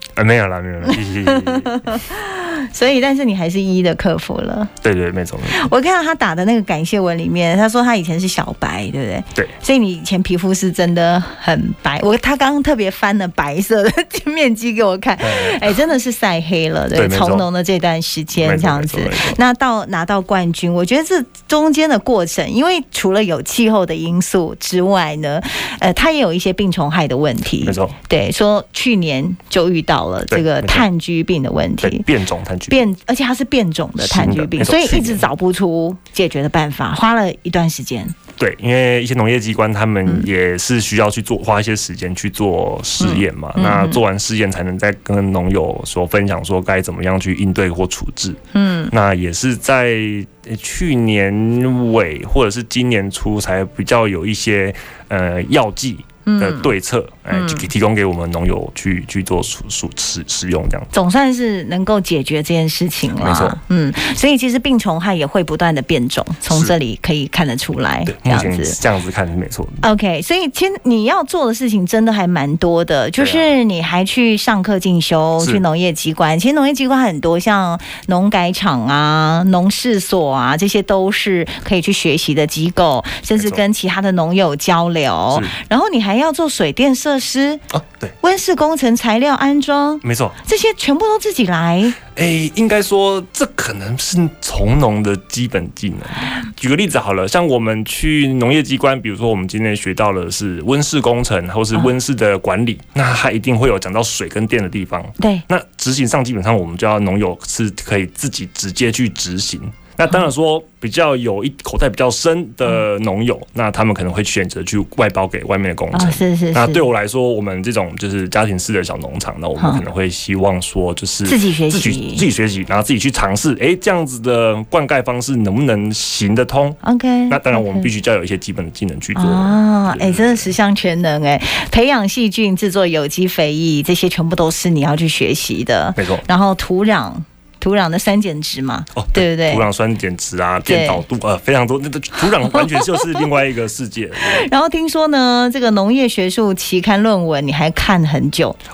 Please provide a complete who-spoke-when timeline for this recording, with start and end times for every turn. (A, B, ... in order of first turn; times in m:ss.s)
0:00.2-0:02.0 A
0:00.9-0:04.7 B
0:04.8-0:05.6 A
0:05.5-0:32.1 B
0:15.2-0:15.8 A
0:16.9-0:17.5 A
0:18.4-0:19.4 A
0:27.6-0:28.0 A
0:30.3-0:30.8 A
0:31.8-0:32.8 A
0:32.7-0:38.2 B
0:34.0-0:35.3 A
0:38.4-0:48.4 A
0:43.0-0:44.0 B
0:48.5-0:48.9 B
0:48.9-1:00.9 A
0:56.3-0:56.7 B
0:57.3-0:57.7 B
1:00.9-1:08.8 B
1:03.1-1:03.6 A
1:06.5-1:06.7 A
1:08.0-1:09.8 A
1:09.8-1:27.6 B
1:13.2-1:13.5 A
1:25.3-1:25.6 A
1:27.7-1:28.1 A
1:28.2-1:32.0 B
1:30.0-1:30.4 A
1:32.2-2:10.5 A
1:55.9-1:56.9 B
1:59.6-1:59.8 B
2:01.2-2:02.2 B
2:06.8-2:07.9 B
2:09.2-2:19.6 B
2:16.0-2:16.2 A
2:19.0-2:24.5 A
2:20.6-2:21.0 B
2:22.5-2:23.0 B
2:24.2-2:28.6 B